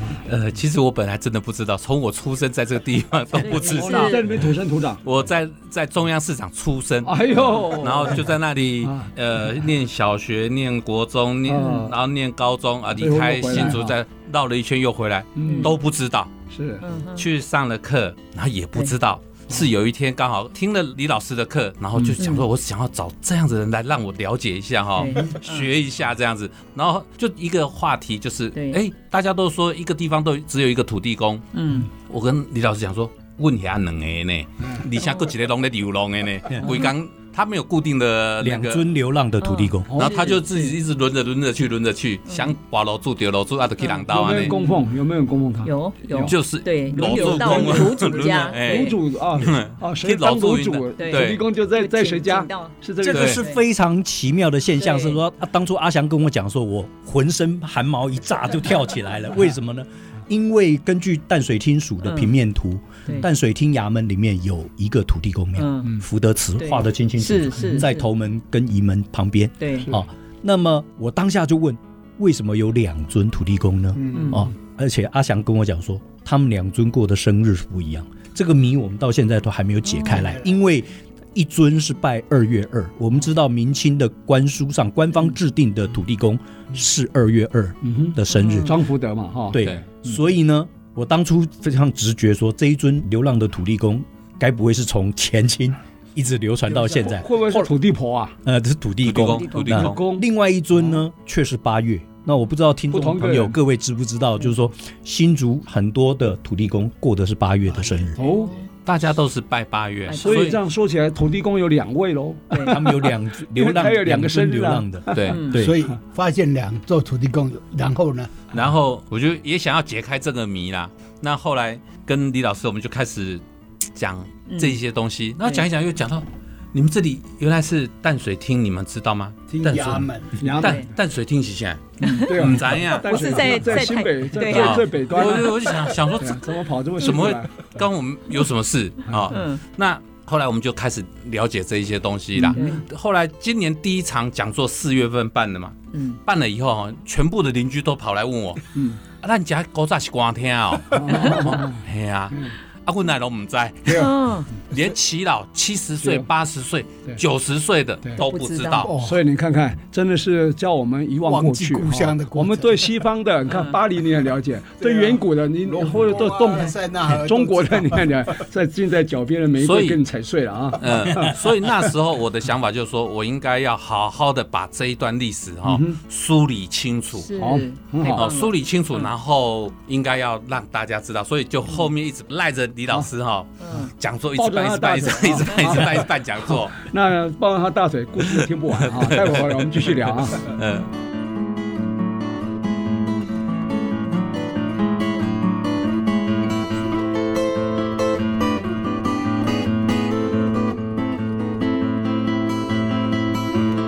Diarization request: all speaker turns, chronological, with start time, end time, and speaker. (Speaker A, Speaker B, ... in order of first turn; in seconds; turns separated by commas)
Speaker A: 0.3-4.3, Speaker B: 3.4-4.2, Speaker C: 3.6-5.0, Speaker A: 5.0-16.4, Speaker C: 7.0-8.2, Speaker C: 8.8-9.1, Speaker C: 11.5-11.9, Speaker C: 13.0-14.0, Speaker C: 15.4-15.7, Speaker B: 15.4-15.7, Speaker C: 16.5-16.9, Speaker B: 16.8-17.3, Speaker A: 17.2-38.8, Speaker B: 22.2-22.5, Speaker B: 24.9-25.7, Speaker B: 28.5-28.8, Speaker B: 31.5-31.9, Speaker B: 35.0-35.3, Speaker B: 36.6-36.9, Speaker D: 38.4-39.9, Speaker B: 39.4-40.7, Speaker C: 39.9-40.2, Speaker A: 40.0-44.6, Speaker B: 42.3-42.5, Speaker B: 43.8-44.7, Speaker C: 44.1-46.4, Speaker B: 45.6-49.0, Speaker A: 46.3-51.4, Speaker C: 46.9-53.4, Speaker B: 51.0-53.6, Speaker D: 53.0-88.8, Speaker B: 54.8-55.2, Speaker B: 62.0-62.3, Speaker B: 65.6-65.9, Speaker B: 66.6-68.0, Speaker B: 69.6-69.9, Speaker E: 74.0-74.4, Speaker B: 74.1-74.5, Speaker C: 87.8-90.0, Speaker B: 88.3-88.7, Speaker D: 89.5-97.7, Speaker C: 96.7-98.3, Speaker D: 98.4-108.2, Speaker A: 99.0-100.0, Speaker C: 99.6-100.3, Speaker C: 102.9-103.6, Speaker C: 108.2-108.5, Speaker B: 108.2-108.6, Speaker A: 108.9-110.6, Speaker B: 110.1-110.4, Speaker C: 110.2-115.4, Speaker B: 112.5-112.8, Speaker D: 112.7-115.8, Speaker A: 115.1-115.4, Speaker B: 115.2-115.6, Speaker E: 115.5-118.3, Speaker A: 118.5-123.4, Speaker A: 124.0-133.6, Speaker B: 124.5-124.8, Speaker E: 129.5-130.4, Speaker C: 130.4-130.8, Speaker B: 130.6-130.9, Speaker B: 132.0-134.9, Speaker C: 132.0-137.6, Speaker A: 134.4-148.7, Speaker B: 139.3-139.6, Speaker C: 142.4-142.7, Speaker B: 142.5-142.8, Speaker B: 145.9-146.2, Speaker A: 149.2-154.1, Speaker C: 150.9-151.8, Speaker B: 153.9-154.5, Speaker A: 154.7-158.9, Speaker C: 156.0-156.3, Speaker B: 158.2-158.9, Speaker E: 158.9-159.2, Speaker C: 158.9-171.5, Speaker E: 161.2-163.0, Speaker B: 163.5-163.8, Speaker E: 164.8-168.4, Speaker A: 169.6-170.0, Speaker A: 170.8-177.3, Speaker C: 175.7-176.0, Speaker B: 177.2-179.1, Speaker C: 177.4-178.3, Speaker A: 178.2-186.9, Speaker B: 183.6-183.9, Speaker C: 184.4-190.5, Speaker A: 188.9-190.9